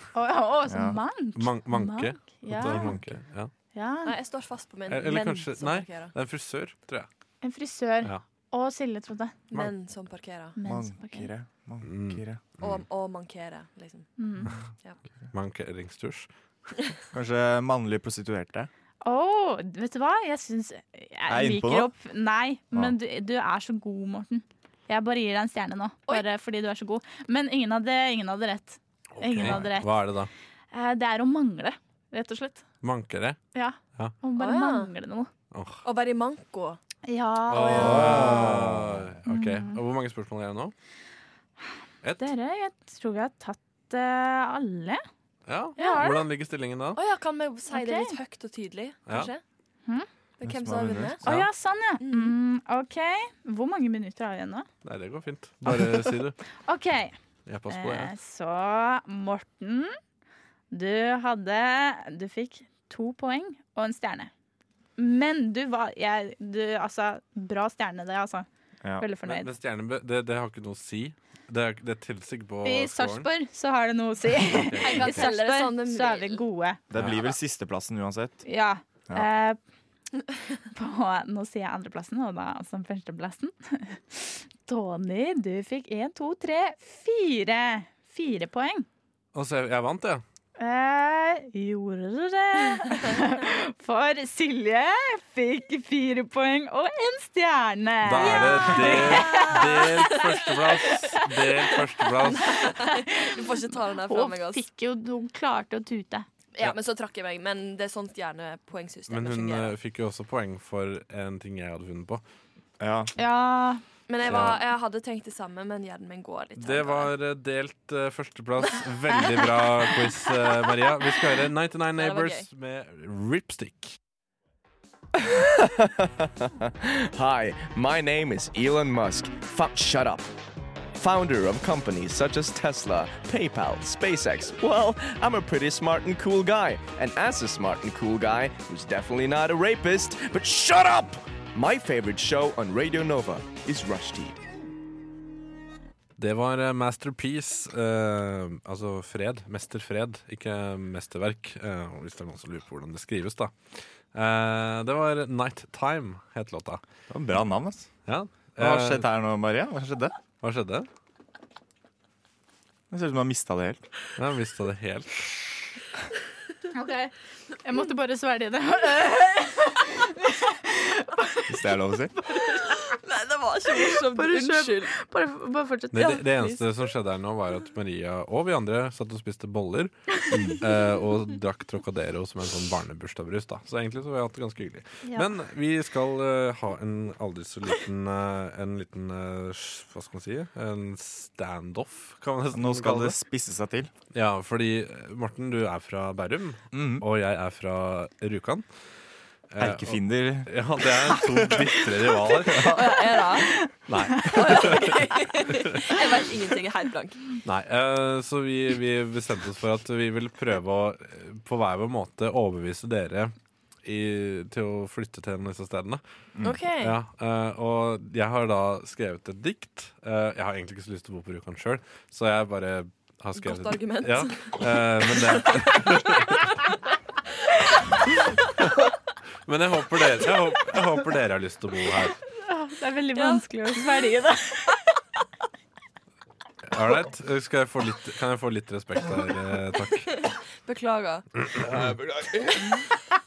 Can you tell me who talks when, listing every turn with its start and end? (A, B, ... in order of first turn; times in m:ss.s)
0:00.1-0:03.0 A
0:00.7-0:01.0 B
0:01.3-0:03.5 C
0:02.7-0:03.0 B
0:03.7-0:04.1 A
0:04.0-0:06.1 D
0:04.9-0:07.1 C
0:07.4-0:09.3 A
0:09.5-0:10.6 D
0:10.6-0:11.3 A
0:10.6-0:12.4 B
0:11.8-0:12.8 C
0:12.6-0:14.2 D
0:14.2-0:14.5 A
0:15.3-0:16.3 C
0:17.1-0:18.7 B
0:19.0-0:30.0 A
0:21.3-0:21.9 B
0:29.2-0:30.3 C
0:30.7-0:32.6 A
0:32.8-0:33.4 C
0:33.5-0:35.3 A
0:34.4-0:34.9 D
0:35.5-0:35.8 C
0:35.8-0:36.8 D
0:37.0-0:38.6 A
0:37.5-0:40.7 C
0:37.7-0:38.5 D
0:37.8-0:39.0 B
0:39.3-0:39.8 A
0:42.2-0:45.0 A
0:45.5-0:47.0 C
0:45.8-0:46.2 A
0:45.8-0:46.0 D
0:46.9-0:49.4 D
0:47.7-0:48.1 A
0:50.4-0:51.2 D
0:50.4-0:51.2 B
0:51.2-0:54.7 A
0:51.2-0:51.5 C
0:52.0-0:52.3 D
0:54.8-0:56.4 C
0:56.6-0:57.1 A
0:57.4-0:58.1 C
0:57.7-1:00.0 A
1:00.7-1:04.3 A
1:05.0-1:08.5 A
1:09.0-1:09.5 A
1:09.2-1:13.3 C
1:12.6-1:16.8 A
1:14.5-1:15.3 C
1:14.7-1:16.4 D
1:16.9-1:18.4 B
1:17.0-1:17.2 C
1:18.4-1:19.6 A
1:20.7-1:28.8 A
1:29.3-1:30.2 C
1:30.6-1:39.8 A
1:38.0-1:42.6 C
1:38.2-1:41.1 D
1:42.4-1:44.6 D
1:42.4-1:46.2 A
1:46.5-1:49.8 D
1:49.1-1:52.2 C
1:52.8-1:53.1 B
1:53.2-1:53.8 A
1:54.1-1:57.1 D
1:54.2-1:54.6 C
1:56.6-2:04.0 C
2:02.0-2:02.4 D
2:05.2-2:10.3 E
2:11.0-2:24.4 E
2:26.2-2:36.8 C
2:37.1-2:37.9 B
2:38.0-2:39.1 C
2:38.6-2:40.1 B
2:40.4-2:40.9 C
2:42.9-2:43.8 B
2:44.2-2:45.5 C
2:46.7-2:51.4 A
2:51.5-2:52.1 B
2:52.3-2:54.9 D
2:53.7-2:56.3 A
2:55.9-3:13.2 C
3:12.5-3:13.9 B
3:14.1-3:18.6 C
3:16.7-3:17.0 B
3:19.5-3:22.8 C
3:19.6-3:20.5 B
3:21.1-3:21.6 B
3:22.6-3:23.5 D
3:23.9-3:24.3 B
3:24.2-3:27.4 D
3:24.5-3:24.8 C
3:27.4-3:36.0 C
3:36.4-3:36.9 D
3:36.8-3:46.5 C
3:43.4-3:45.8 D
3:49.5-3:52.2 C
3:52.4-3:54.8 A
3:53.1-3:53.4 D
3:56.7-4:00.2 C
4:00.3-4:01.3 D
4:01.6-4:02.0 C